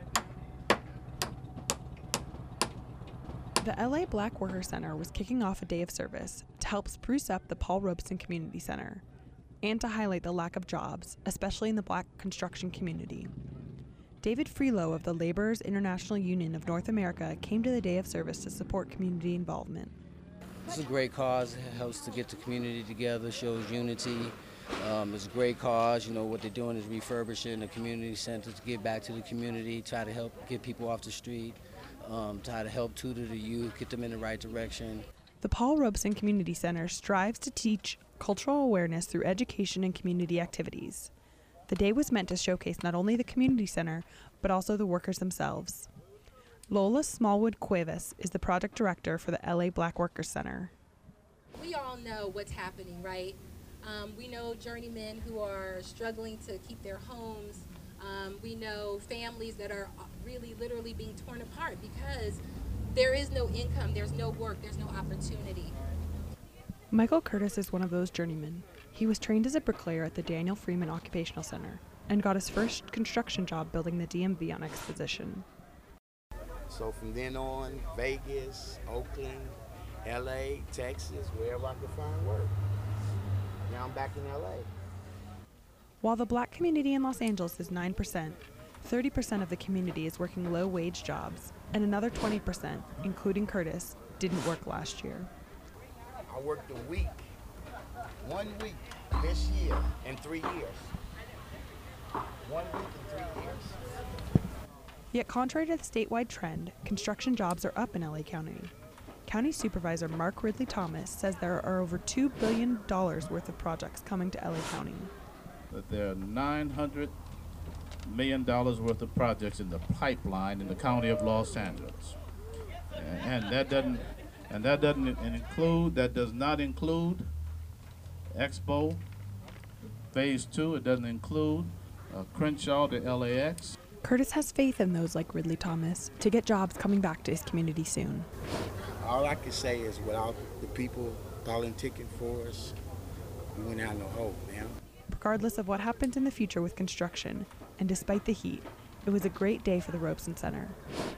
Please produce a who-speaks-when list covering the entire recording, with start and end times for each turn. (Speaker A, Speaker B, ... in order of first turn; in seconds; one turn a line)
Speaker A: 3.6-9.0
Speaker A: 9.6-13.3
Speaker A: 14.2-19.9
Speaker B: 20.6-35.0
Speaker A: 35.4-41.1
Speaker A: 41.7-45.9
Speaker A: 46.7-50.7
Speaker C: 51.6-62.4
Speaker C: 62.9-65.8
Speaker A: 66.9-75.5
Speaker D: 76.7-82.6
Speaker D: 83.7-84.7
Speaker A: 86.0-95.3
Speaker D: 96.3-97.3
Speaker D: 98.2-101.0
Speaker D: 102.4-103.8
Speaker A: 105.1-108.7
Speaker A: 109.2-115.1
Speaker E: 115.7-117.2
Speaker E: 118.0-122.2
Speaker E: 122.9-127.3
Speaker E: 128.3-129.0
Speaker E: 130.1-133.8
Speaker A: 134.0-138.3
Speaker D: 139.0-142.7
Speaker D: 143.5-144.8
Speaker A: 145.1-150.8